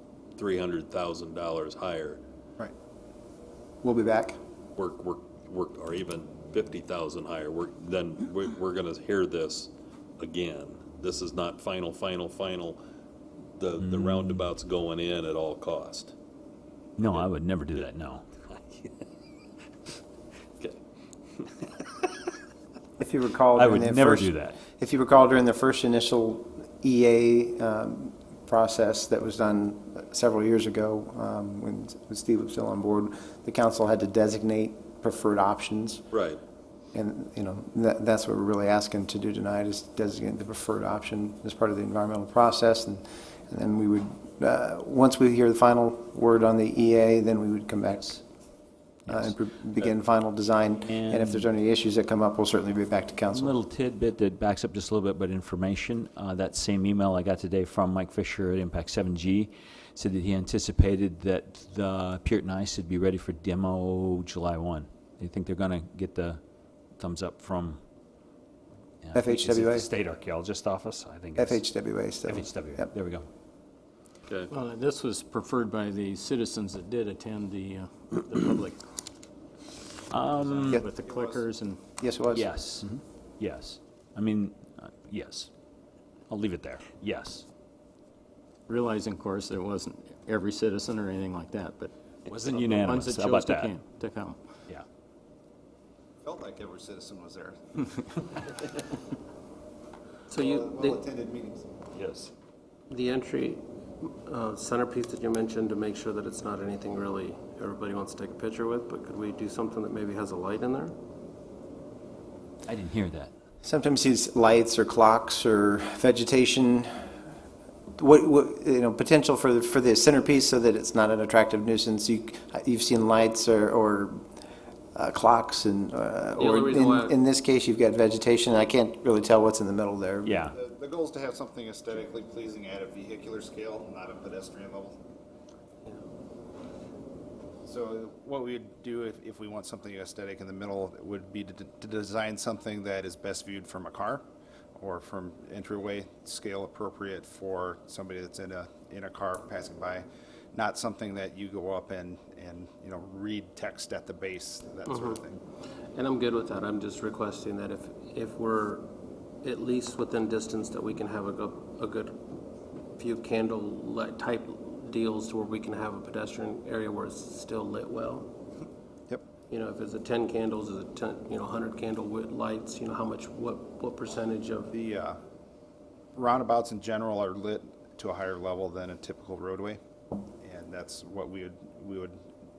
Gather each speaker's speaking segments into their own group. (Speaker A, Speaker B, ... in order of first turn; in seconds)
Speaker A: 0.4-2.2, 4.8-12.8, 13.6-16.1, 17.1-17.9, 18.5-19.0, 21.4-22.1, 36.1-36.4
Speaker B: 3.8-4.4, 23.0-36.0, 36.9-48.2, 49.1-53.6, 69.2-69.9, 71.4-72.9, 82.0-82.5, 113.6-116.9, 118.0-124.2, 125.0-130.4
Speaker C: 13.8-14.4, 17.0-18.2, 23.6-24.6, 49.1-49.4, 50.9-51.5, 53.3-67.8, 69.0-73.3, 80.1-80.9, 82.3-85.5, 86.3-87.5, 92.3-93.8, 101.9-102.3, 112.7-113.3, 130.2-130.6
Speaker D: 74.5-78.8, 80.5-81.8, 88.7-91.9, 92.5-94.4
Speaker E: 81.0-81.5, 96.2-98.1, 100.3-101.8, 130.5-135.0, 137.7-144.2, 144.8-155.4, 174.7-175.2, 176.2-179.8, 180.4-182.2
Speaker F: 100.3-101.0, 102.9-111.0, 126.3-127.2, 154.9-155.2, 155.9-158.9, 159.4-162.4, 163.0-168.3, 169.5-174.7